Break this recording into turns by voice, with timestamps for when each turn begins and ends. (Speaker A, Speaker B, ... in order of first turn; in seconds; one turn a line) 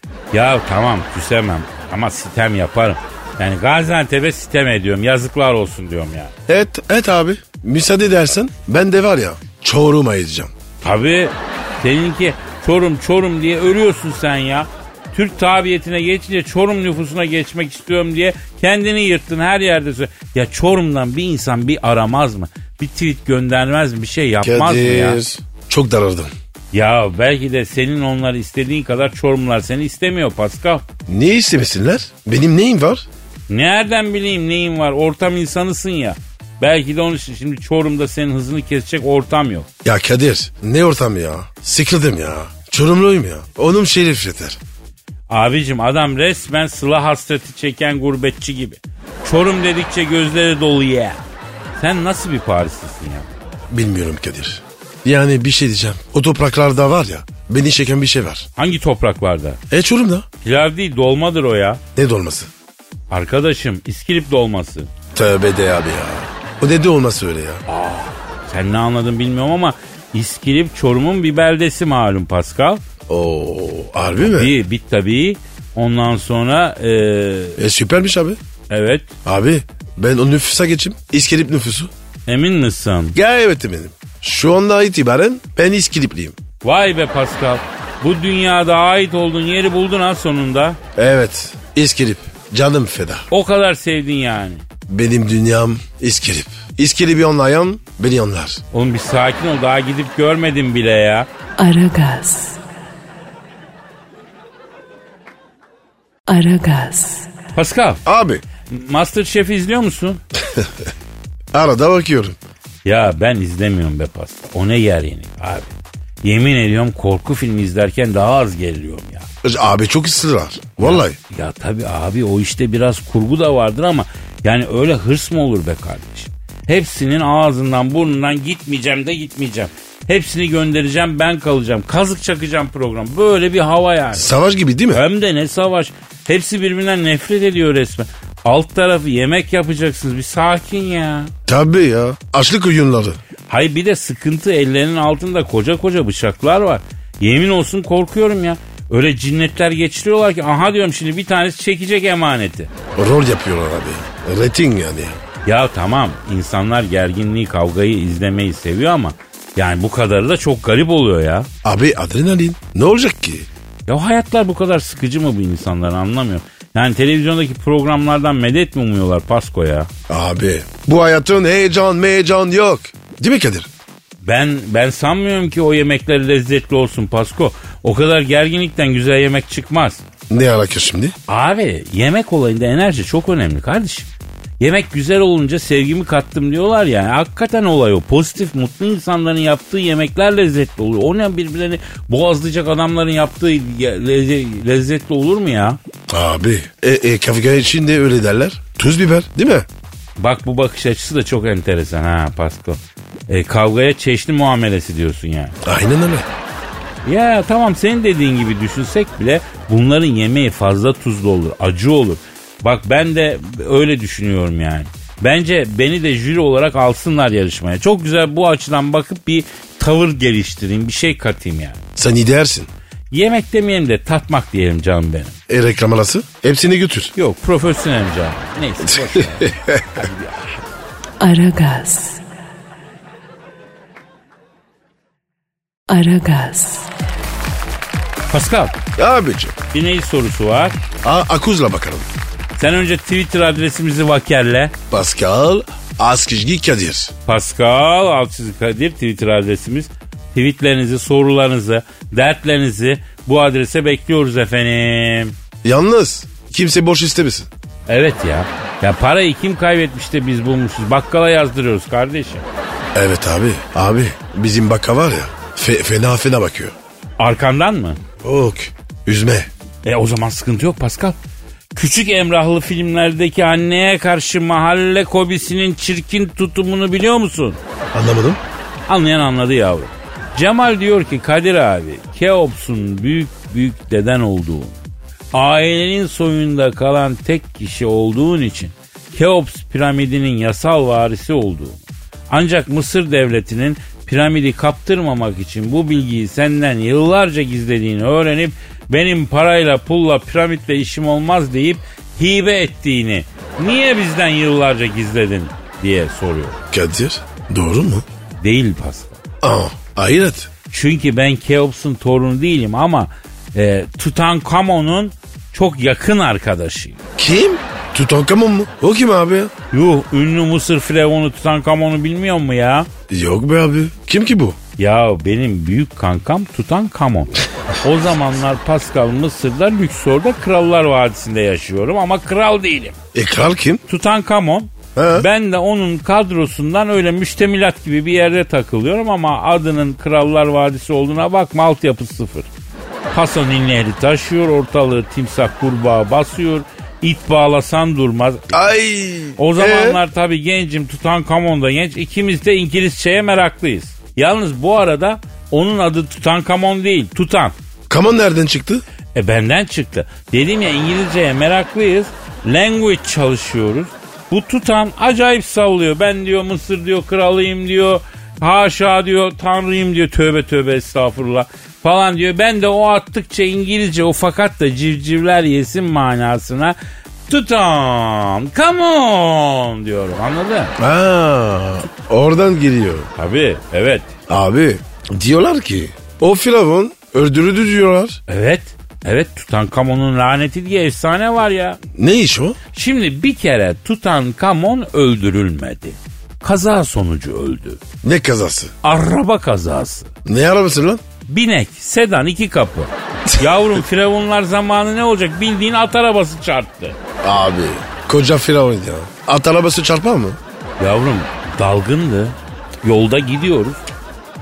Speaker A: 0.3-6.3
Speaker B: 6.5-10.5
Speaker A: 10.8-25.2
Speaker B: 24.4-26.3
Speaker A: 26.7-30.8
Speaker B: 31.1-33.0
Speaker A: 33.5-39.7
Speaker B: 39.8-44.6
Speaker A: 45.3-51.2
Speaker A: 51.8-53.3
Speaker B: 53.7-58.5
Speaker A: 58.6-59.6
Speaker B: 59.7-60.2
Speaker A: 60.4-61.8
Speaker B: 61.9-62.5
Speaker A: 63.1-64.9
Speaker B: 65.1-67.6
Speaker A: 67.7-72.8
Speaker B: 73.1-74.5
Speaker A: 74.2-77.6
Speaker B: 77.6-78.4
Speaker A: 78.7-79.1
Speaker B: 79.2-81.9
Speaker A: 82.3-83.2
Speaker B: 83.1-86.3
Speaker A: 86.6-90.8
Speaker B: 91.0-93.2
Speaker A: 93.3-94.6
Speaker B: 94.9-98.6
Speaker A: 98.7-101.3
Speaker C: 101.6-102.6
Speaker C: 106.3-107.3
Speaker A: 107.5-108.0
Speaker B: 108.0-108.4
Speaker A: 108.7-110.2
Speaker B: 110.4-110.7
Speaker B: 111.5-112.4
Speaker A: 112.8-115.7
Speaker A: 116.2-119.3
Speaker B: 119.4-121.2
Speaker A: 120.8-134.3
Speaker B: 134.1-135.0
Speaker A: 134.9-141.3
Speaker B: 141.5-143.2
Speaker A: 143.5-152.7
Speaker B: 152.9-155.2
Speaker A: 155.4-161.5
Speaker B: 161.6-163.5
Speaker A: 163.9-169.9
Speaker B: 170.1-173.7
Speaker A: 174.2-180.0
Speaker B: 180.3-181.1
Speaker A: 181.3-184.1
Speaker A: 184.6-195.8
Speaker B: 196.1-199.7
Speaker A: 200.2-205.6
Speaker B: 205.6-206.3
Speaker A: 207.0-221.8
Speaker B: 221.9-222.7
Speaker A: 223.1-225.3
Speaker B: 225.5-227.1
Speaker A: 227.2-230.6
Speaker B: 228.8-230.0
Speaker C: 231.2-232.2
Speaker C: 235.9-236.9
Speaker A: 238.3-238.8
Speaker B: 239.0-239.6
Speaker A: 239.7-240.8
Speaker B: 241.0-242.1
Speaker A: 242.6-244.7
Speaker B: 244.9-247.1
Speaker A: 247.2-255.3
Speaker B: 255.6-257.5
Speaker A: 257.9-262.4
Speaker B: 262.9-266.7
Speaker A: 267.2-268.0
Speaker B: 268.2-269.5
Speaker A: 269.8-271.1
Speaker A: 271.7-277.6
Speaker B: 277.9-278.4
Speaker A: 278.9-284.8
Speaker A: 285.3-306.6
Speaker B: 306.7-308.0
Speaker A: 308.4-309.2
Speaker B: 309.4-310.5
Speaker A: 310.7-317.0
Speaker B: 317.2-319.5
Speaker A: 319.7-322.9
Speaker B: 323.1-324.6
Speaker A: 324.8-333.0
Speaker B: 333.1-333.8
Speaker A: 333.9-342.5
Speaker B: 334.9-335.3
Speaker A: 343.1-348.6
Speaker B: 348.5-350.0
Speaker A: 349.4-357.5
Speaker B: 357.9-358.8
Speaker A: 359.1-376.8
Speaker A: 377.3-380.7
Speaker B: 380.8-383.1
Speaker A: 383.1-384.1
Speaker B: 384.3-388.2
Speaker A: 388.3-391.8
Speaker B: 391.9-392.6
Speaker A: 392.7-397.8
Speaker B: 398.0-398.7
Speaker A: 398.8-400.1
Speaker B: 400.2-401.0
Speaker A: 401.3-407.0
Speaker B: 407.2-410.4
Speaker A: 410.8-413.8